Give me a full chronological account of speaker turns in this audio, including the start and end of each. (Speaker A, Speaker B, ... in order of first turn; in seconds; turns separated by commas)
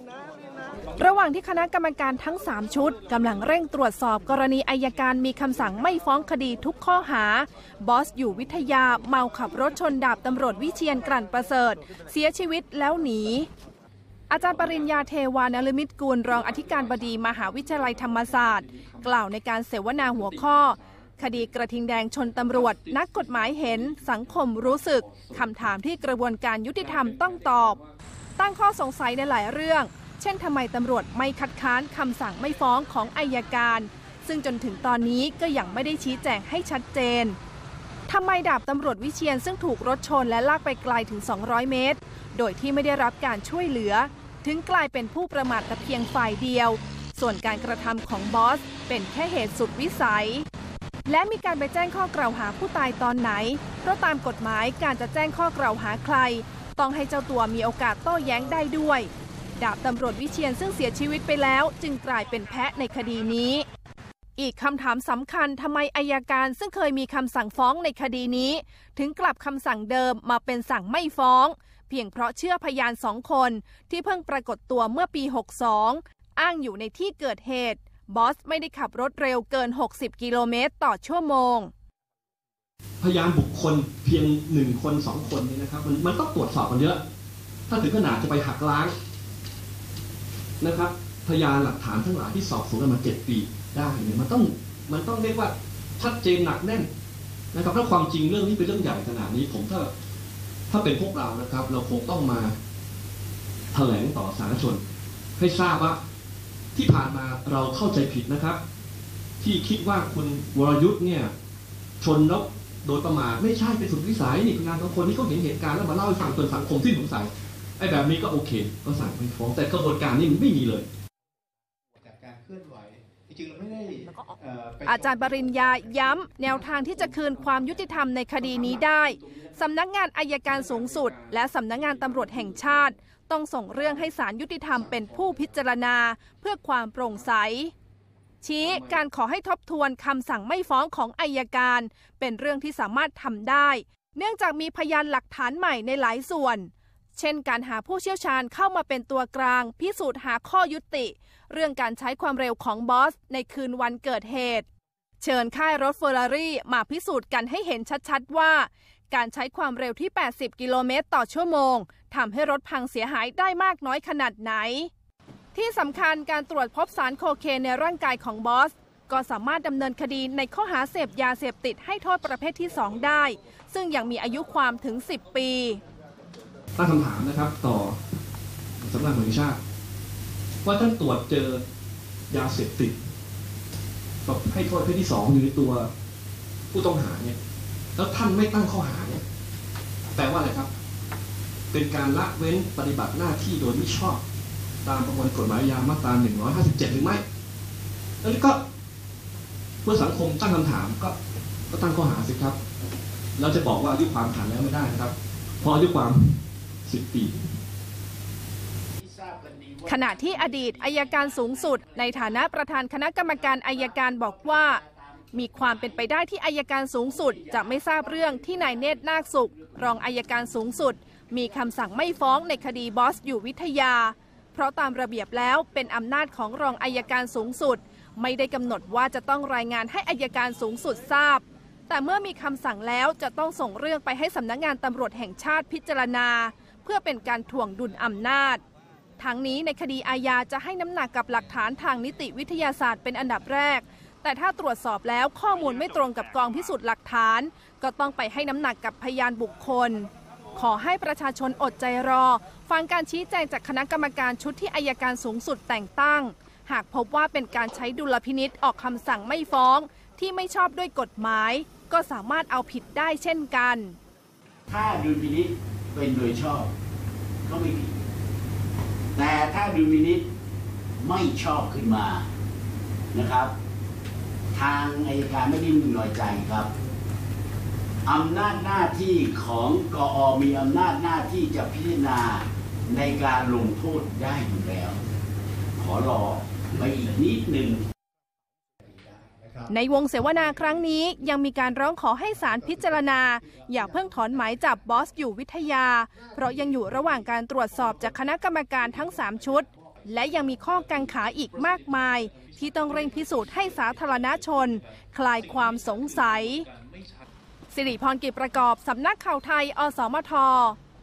Speaker A: 1.0-13.5, Speaker A: 14.3-27.8, Speaker B: 18.7-19.0, Speaker A: 28.4-37.4, Speaker A: 38.1-50.5, Speaker A: 51.1-63.6, Speaker A: 64.4-81.7, Speaker B: 83.0-87.0, Speaker B: 87.7-88.9, Speaker B: 90.6-96.9, Speaker B: 97.5-99.9, Speaker B: 100.7-102.5, Speaker B: 103.7-104.8, Speaker B: 105.4-106.0, Speaker B: 106.8-108.6, Speaker B: 109.4-111.3, Speaker B: 112.0-120.9, Speaker C: 122.0-126.1, Speaker A: 124.8-137.7, Speaker A: 138.4-154.7, Speaker A: 155.2-164.9, Speaker A: 165.5-175.8, Speaker B: 176.8-178.0, Speaker B: 178.8-179.6, Speaker B: 180.6-181.6, Speaker B: 182.3-183.0, Speaker B: 184.2-185.9, Speaker B: 186.7-187.4, Speaker B: 188.0-189.2, Speaker B: 190.1-190.7, Speaker B: 191.7-194.2, Speaker B: 194.8-197.2, Speaker B: 198.2-198.6, Speaker B: 199.8-201.2, Speaker B: 201.7-202.6, Speaker B: 203.4-207.5, Speaker D: 209.0-212.5, Speaker A: 209.9-214.8, Speaker D: 213.3-216.0, Speaker A: 215.3-238.6, Speaker D: 217.2-218.8, Speaker A: 239.2-264.0, Speaker D: 264.7-266.7, Speaker D: 267.5-268.0, Speaker D: 269.1-270.3, Speaker D: 271.0-272.3, Speaker D: 273.1-273.5, Speaker D: 274.5-276.7, Speaker D: 278.1-285.0, Speaker D: 285.8-287.9, Speaker C: 288.9-289.7, Speaker A: 289.7-306.7, Speaker C: 292.5-294.8, Speaker C: 296.3-297.0, Speaker C: 299.1-299.8, Speaker A: 307.7-310.8